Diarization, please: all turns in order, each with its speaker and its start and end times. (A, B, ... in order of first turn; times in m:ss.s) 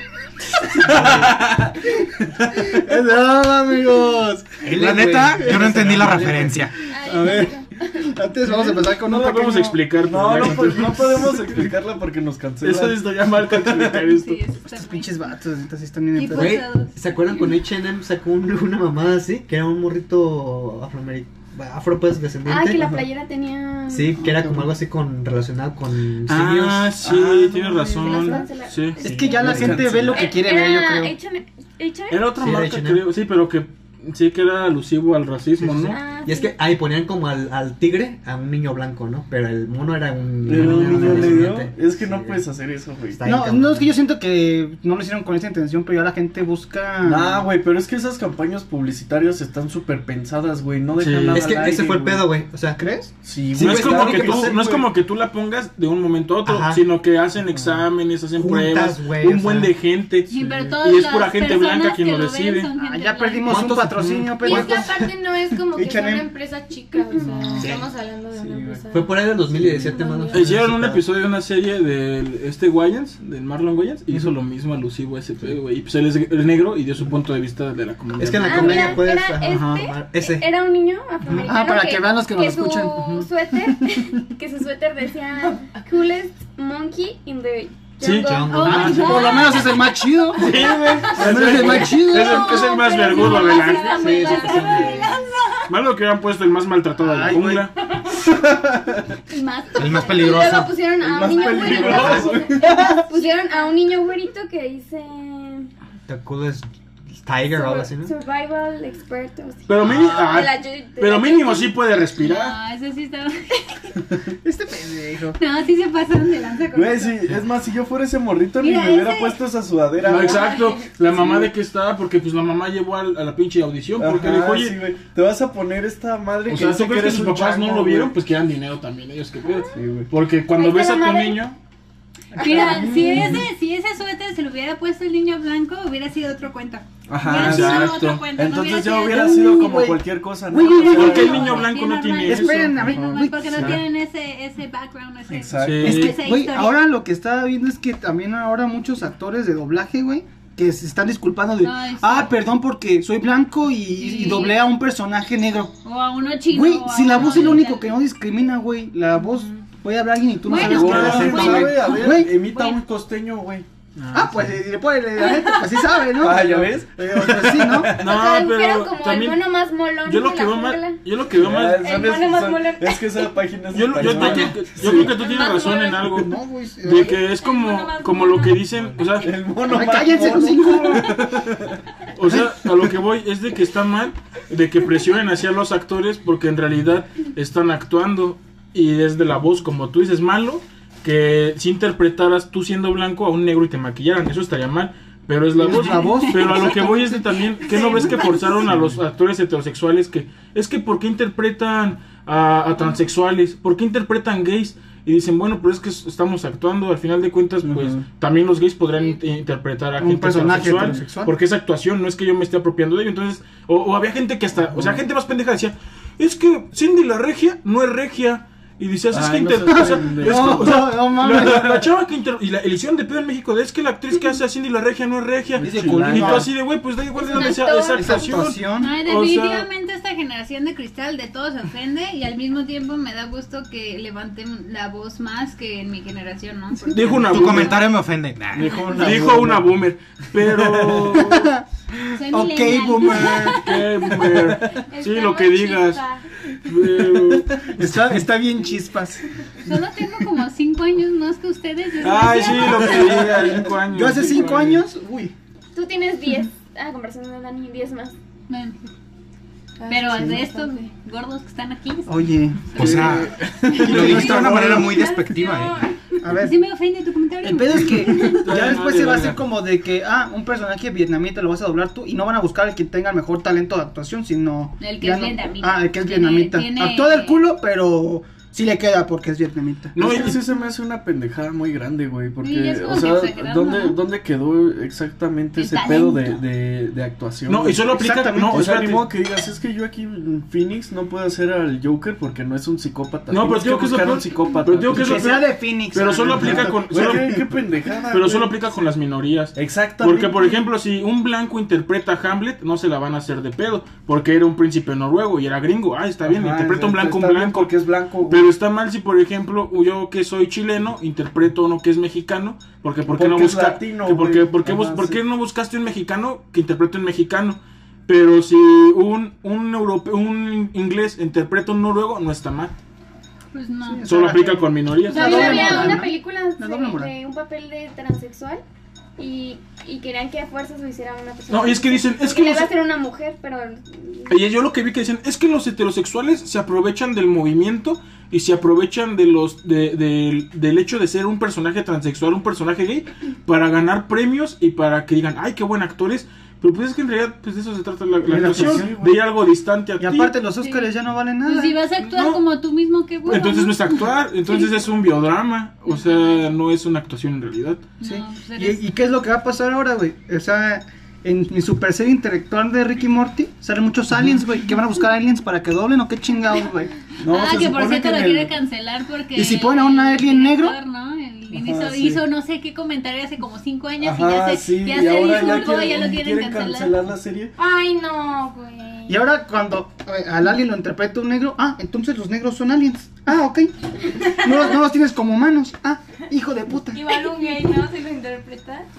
0:00.7-0:01.3 A
0:00.9-0:01.8 B
0:01.8-0:09.8 A
0:04.6-0:06.7 C
0:04.7-0:06.3 D
0:05.6-0:06.0 B
0:06.9-0:08.0 E
0:09.1-0:11.4 F
0:10.0-0:14.0 B
0:10.4-0:11.4 A
0:12.6-0:14.5 F
0:14.1-0:15.1 G
0:14.7-0:16.6 A
0:16.2-0:17.0 G
0:16.3-0:23.0 D
0:22.4-0:24.3 E
0:23.9-0:27.0 D
0:24.2-0:24.5 A
0:26.3-0:29.8 F
0:27.0-0:28.4 B
0:28.0-0:32.3 E
0:28.1-0:28.4 A
0:29.0-0:31.1 A
0:29.2-0:30.3 B
0:32.1-0:36.0 F
0:32.4-0:33.1 D
0:35.6-0:42.4 D
0:35.9-0:36.5 E
0:40.4-0:43.3 B
0:43.1-0:43.9 D
0:43.2-0:47.4 A
0:47.0-0:52.3 B
0:51.0-0:51.6 F
0:51.3-0:52.8 D
0:52.8-0:53.1 A
0:53.2-0:54.9 B
0:53.5-0:54.6 D
0:53.6-1:02.7 F
0:56.4-0:56.8 D
0:58.4-0:58.8 C
0:58.4-0:59.7 D
1:00.3-1:03.7 G
1:00.3-1:00.7 B
1:02.8-1:04.9 A
1:03.5-1:05.0 D
1:04.0-1:04.2 F
1:04.4-1:10.6 E
1:05.7-1:06.3 A
1:07.2-1:07.7 A
1:07.6-1:07.9 D
1:08.3-1:08.9 B
1:08.9-1:11.1 D
1:10.3-1:19.8 F
1:18.2-1:20.5 D
1:18.4-1:29.0 E
1:21.3-1:23.3 A
1:28.0-1:28.4 F
1:28.0-1:29.5 D
1:28.4-1:30.0 G
1:28.6-1:32.5 A
1:30.4-1:34.7 F
1:30.4-1:32.0 B
1:32.1-1:35.1 E
1:32.3-1:35.7 G
1:34.0-1:35.1 D
1:35.7-1:37.7 F
1:37.0-1:37.7 A
1:38.6-1:38.8 B
1:39.3-1:45.7 E
1:39.7-1:40.9 C
1:41.0-1:43.1 B
1:41.3-1:43.7 G
1:41.7-1:42.1 F
1:46.1-1:48.1 D
1:47.5-1:51.8 E
1:49.7-1:52.6 F
1:52.2-1:54.0 G
1:54.4-1:55.4 A
1:55.4-1:57.4 G
1:56.7-2:01.5 B
1:58.6-1:59.4 G
2:00.0-2:04.8 F
2:00.1-2:00.9 G
2:04.0-2:08.2 B
2:06.5-2:11.6 F
2:09.6-2:10.1 B
2:10.5-2:11.5 E
2:12.3-2:13.4 A
2:12.4-2:19.9 G
2:17.1-2:21.7 B
2:17.2-2:18.2 F
2:19.1-2:21.4 A
2:20.5-2:26.8 G
2:20.8-2:23.0 F
2:22.2-2:23.8 A
2:23.5-2:23.8 B
2:25.3-2:26.1 B
2:25.6-2:26.2 F
2:25.8-2:35.7 A
2:31.6-2:32.3 G
2:34.0-2:34.6 G
2:35.8-2:37.9 G
2:36.5-2:42.4 A
2:39.2-2:39.5 G
2:40.4-2:42.8 G
2:40.5-2:43.6 B
2:40.7-2:41.3 F
2:41.0-2:41.8 D
2:44.0-2:44.5 F
2:44.1-2:47.9 A
2:45.2-2:46.0 G
2:46.1-2:48.2 B
2:48.0-2:49.5 F
2:48.0-2:51.0 E
2:50.0-2:51.9 F
2:51.3-2:55.1 B
2:51.8-2:53.3 E
2:53.7-2:59.3 F
2:54.4-2:55.1 A
2:54.8-2:56.1 E
2:56.0-2:57.2 A
2:56.9-2:58.6 E
2:58.5-3:01.8 B
2:59.6-3:01.2 A
3:02.1-3:49.7 F
3:15.6-3:18.4 A
3:15.7-3:17.1 G
3:17.6-3:18.6 G
3:18.7-3:19.0 B
3:27.6-3:28.0 B
3:30.0-3:31.3 A
3:30.4-3:31.0 B
3:34.7-3:35.0 B
3:39.1-3:41.8 B
3:39.7-3:41.6 A
3:45.6-3:46.5 B
3:45.6-3:46.5 A
3:47.2-3:48.3 E
3:47.9-3:48.9 A
3:48.8-3:58.0 G
3:56.9-3:57.8 F
3:57.2-3:58.9 C
3:58.5-3:59.9 B
3:58.6-4:01.5 F
4:00.4-4:01.2 B
4:01.1-4:03.7 A
4:02.1-4:03.8 G
4:03.4-4:06.0 F
4:04.4-4:04.8 B
4:04.9-4:06.2 E
4:06.6-4:07.6 F
4:06.9-4:08.2 B
4:07.7-4:09.3 A
4:09.6-4:13.2 G
4:12.0-4:14.8 F
4:12.7-4:13.6 B
4:13.9-4:15.3 A
4:15.7-4:18.2 E
4:18.5-4:18.9 G
4:19.8-4:20.9 E
4:19.9-4:22.3 G
4:20.1-4:20.4 A
4:22.1-4:25.0 A
4:22.7-4:25.8 C
4:22.8-4:23.5 B
4:23.2-4:24.3 F
4:24.6-4:26.0 E
4:26.2-4:26.6 A
4:26.3-4:28.7 G
4:27.4-4:40.3 A
4:28.1-4:29.4 F
4:34.8-4:37.4 G
4:40.0-4:40.4 F
4:40.0-4:47.9 B
4:42.4-4:44.0 G
4:45.5-4:46.4 G
4:47.5-4:49.1 F
4:47.8-4:48.7 A
4:48.5-4:55.4 B
4:53.3-4:57.6 F
4:54.9-4:56.8 A
4:56.3-4:58.6 B
4:58.1-5:07.7 F
4:59.5-5:00.6 B
5:06.2-5:08.5 B
5:08.3-5:22.7 F
5:13.0-5:15.2 B
5:23.5-5:24.0 G
5:23.8-5:27.1 A
5:24.0-5:26.0 F
5:25.1-5:26.1 G
5:25.1-5:28.6 E
5:29.2-5:34.4 E
5:31.5-5:32.7 F
5:34.3-5:50.3 F
5:48.2-5:49.3 B
5:48.3-5:48.9 A
5:50.0-5:51.8 A
5:50.6-5:50.9 G
5:51.4-5:54.7 G
5:52.0-5:52.4 F
5:53.2-5:57.8 F
5:55.9-5:56.5 G
5:58.0-5:58.8 G
5:58.0-6:06.9 A
6:07.2-6:08.6 B
6:07.2-6:17.0 G
6:09.3-6:10.8 A
6:11.5-6:12.2 B
6:14.0-6:17.5 B
6:17.6-6:19.2 E
6:19.1-6:27.0 A
6:26.9-6:28.9 E